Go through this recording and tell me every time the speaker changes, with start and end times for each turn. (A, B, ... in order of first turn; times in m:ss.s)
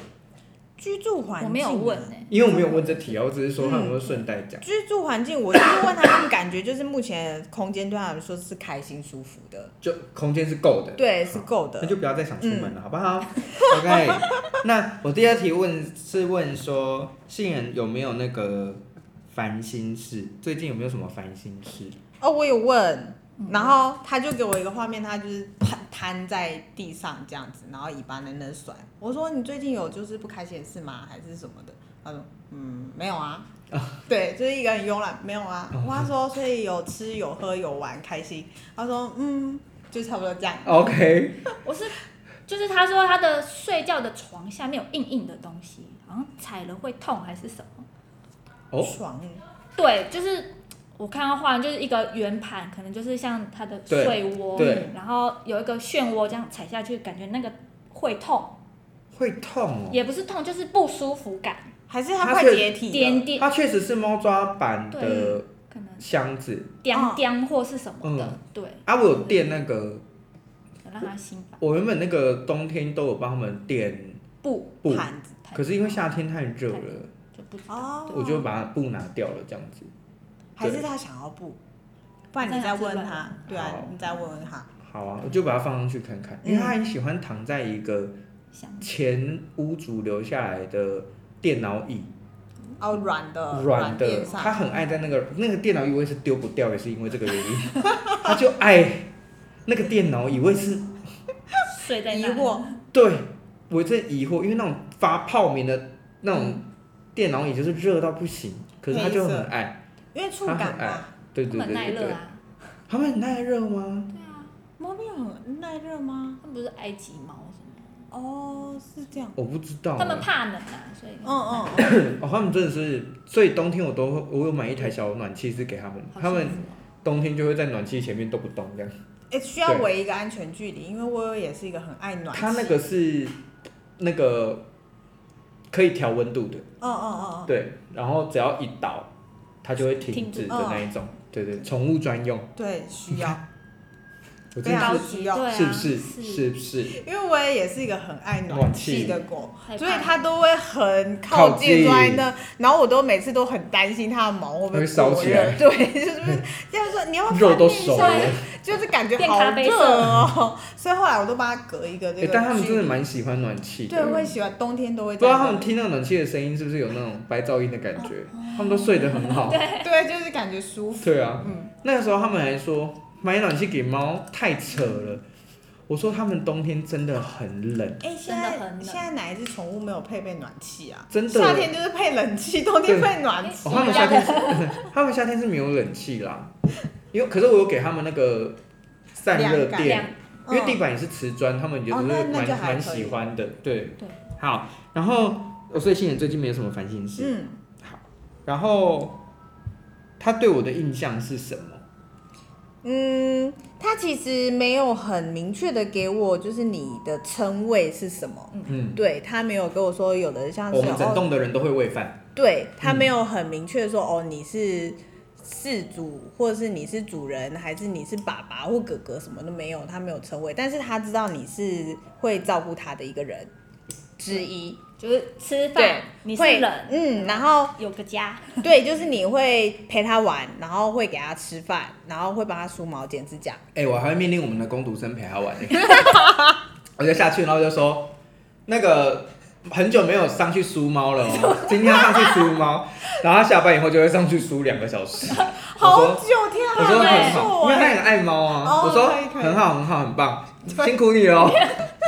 0:00.8-0:03.0 A
0:01.4-0:02.8 B
0:02.3-0:04.6 C
0:03.6-0:04.0 A
0:04.6-0:09.7 A
0:09.8-0:22.0 C
0:11.0-0:12.7 A
0:13.6-0:14.4 A
0:22.2-0:33.5 A
0:23.4-0:23.8 B
0:33.7-0:34.0 C
0:34.1-0:41.0 A
0:35.7-0:36.1 C
0:40.6-0:41.4 C
0:41.6-0:47.9 B
0:48.8-0:49.4 A
0:49.8-0:58.6 B
0:53.9-0:54.9 C
0:54.6-0:54.9 A
0:59.1-1:00.0 C
0:59.9-1:01.7 B
1:01.9-1:03.3 A
1:02.2-1:02.8 C
1:02.9-1:03.5 B
1:03.4-1:05.5 C
1:04.9-1:06.1 B
1:06.0-1:06.8 C
1:06.8-1:09.5 B
1:06.9-1:07.2 A
1:08.0-1:10.0 C
1:10.8-1:11.6 B
1:11.6-1:14.2 C
1:14.4-1:14.9 B
1:14.8-1:17.1 C
1:14.9-1:15.3 A
1:15.4-1:16.2 B
1:16.7-1:18.2 B
1:17.7-1:18.4 A
1:18.1-1:19.9 C
1:20.6-1:21.6 A
1:20.6-1:20.8 C
1:22.3-1:24.7 A
1:22.4-1:23.3 B
1:23.5-1:23.9 C
1:24.8-1:28.2 C
1:26.4-1:26.8 A
1:28.5-1:28.9 B
1:28.8-1:32.1 C
1:32.8-1:34.6 A
1:33.5-1:39.1 C
1:39.6-1:41.0 C
1:41.7-1:42.8 B
1:42.1-1:42.7 A
1:42.9-1:49.8 C
1:48.9-1:49.5 A
1:50.1-1:51.1 A
1:50.5-1:52.2 C
1:51.5-1:52.4 B
1:52.9-1:54.1 C
1:54.1-1:54.5 B
1:54.8-1:56.4 A
1:56.4-1:57.9 B
1:58.1-1:59.4 A
1:59.4-2:00.3 C
2:00.0-2:01.9 B
2:01.2-2:02.0 A
2:01.8-2:08.9 C
2:06.1-2:06.8 B
2:09.3-2:12.8 A
2:12.3-2:13.4 C
2:14.0-2:14.6 C
2:15.7-2:16.7 C
2:16.8-2:17.5 A
2:17.5-2:19.1 C
2:19.6-2:22.5 C
2:20.1-2:20.7 B
2:20.5-2:20.9 A
2:22.6-2:23.4 A
2:23.1-2:23.4 C
2:24.6-2:27.0 C
2:24.6-2:25.5 A
2:24.8-2:26.4 B
2:26.9-2:43.0 A
2:28.5-2:29.2 C
2:29.5-2:30.2 B
2:31.3-2:32.2 C
2:34.7-2:35.6 C
2:37.3-2:38.4 C
2:37.9-2:38.4 B
2:39.2-2:40.1 B
2:42.2-2:44.3 C
2:43.9-2:45.7 A
2:45.2-2:49.6 C
2:48.0-2:49.9 B
2:49.8-2:51.7 A
2:51.0-2:55.2 C
2:55.9-2:58.0 C
2:58.0-3:04.5 A
2:58.2-2:59.1 B
3:01.1-3:01.7 C
3:02.9-3:06.5 C
3:03.4-3:04.9 B
3:07.1-3:08.6 C
3:09.1-3:19.2 C
3:09.3-3:10.8 A
3:09.8-3:10.2 B
3:11.9-3:13.2 A
3:17.2-3:17.6 A
3:20.2-3:21.8 C
3:22.8-3:31.3 A
3:28.7-3:29.0 C
3:30.7-3:32.2 C
3:32.4-3:43.5 A
3:32.8-3:33.1 C
3:44.2-3:44.8 A
3:45.0-3:48.7 B
3:45.8-3:47.8 A
3:48.6-3:53.6 A
3:53.7-3:56.2 C
3:55.9-3:56.4 A
3:57.0-3:58.1 C
3:58.7-4:11.7 C
4:01.2-4:02.5 B
4:05.7-4:09.7 A
4:06.8-4:07.6 B
4:11.4-4:11.8 B